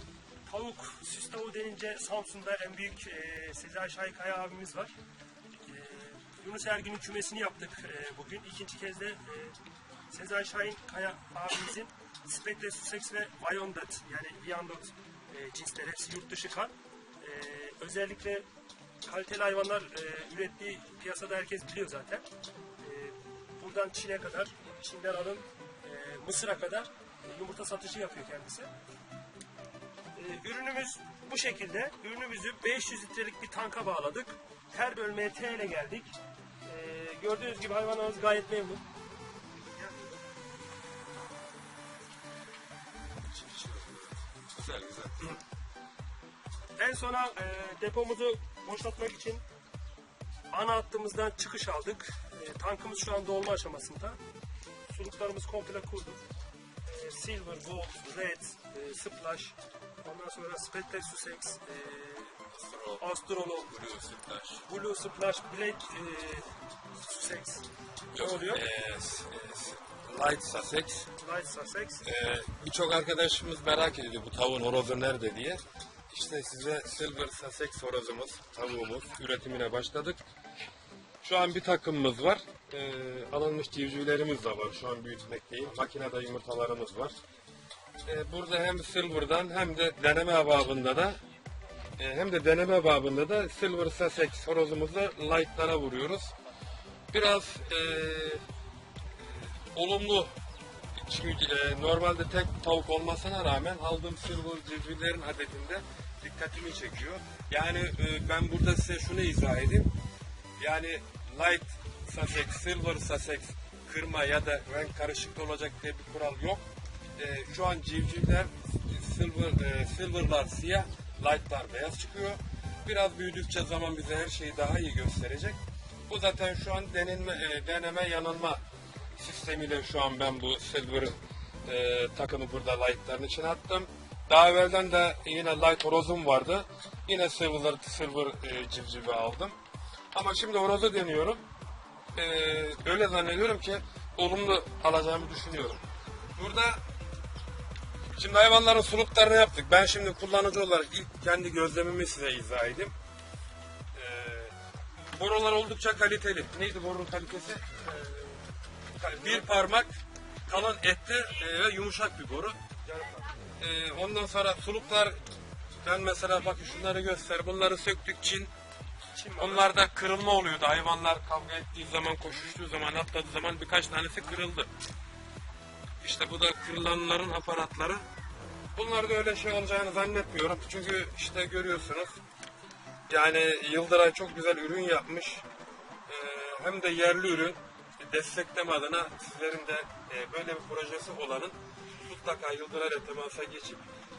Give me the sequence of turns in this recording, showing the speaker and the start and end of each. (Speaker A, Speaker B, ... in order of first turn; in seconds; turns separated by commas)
Speaker A: 0.5-4.9, Speaker A: 5.5-9.6, Speaker A: 10.1-18.5, Speaker A: 19.0-22.2, Speaker A: 22.8-28.7, Speaker A: 30.1-38.8, Speaker B: 39.5-40.2, Speaker B: 43.3-45.4, Speaker A: 46.8-49.4, Speaker A: 50.5-54.2, Speaker A: 54.9-56.2, Speaker A: 56.8-62.4, Speaker B: 62.5-63.0, Speaker A: 63.0-63.8, Speaker B: 63.7-64.6, Speaker A: 64.7-68.6, Speaker B: 68.1-71.1, Speaker A: 71.2-72.1, Speaker B: 72.0-80.2, Speaker B: 81.2-87.2, Speaker B: 88.0-91.2, Speaker B: 92.0-96.3, Speaker B: 97.1-98.4, Speaker B: 99.2-100.3, Speaker B: 100.9-109.9, Speaker B: 110.6-116.6, Speaker B: 117.2-125.6, Speaker B: 126.1-128.6, Speaker B: 129.2-139.6, Speaker B: 140.1-141.4, Speaker B: 142.1-145.8, Speaker B: 146.4-146.8, Speaker B: 148.2-152.9, Speaker B: 153.9-154.5, Speaker B: 155.1-157.8, Speaker A: 157.9-158.4, Speaker B: 159.0-159.9, Speaker B: 160.4-162.6, Speaker A: 162.9-163.3, Speaker B: 163.6-165.2, Speaker B: 165.8-168.5, Speaker A: 169.1-169.7, Speaker B: 169.4-174.7, Speaker B: 176.0-178.0, Speaker B: 178.7-182.2, Speaker B: 183.1-185.4, Speaker B: 186.1-193.8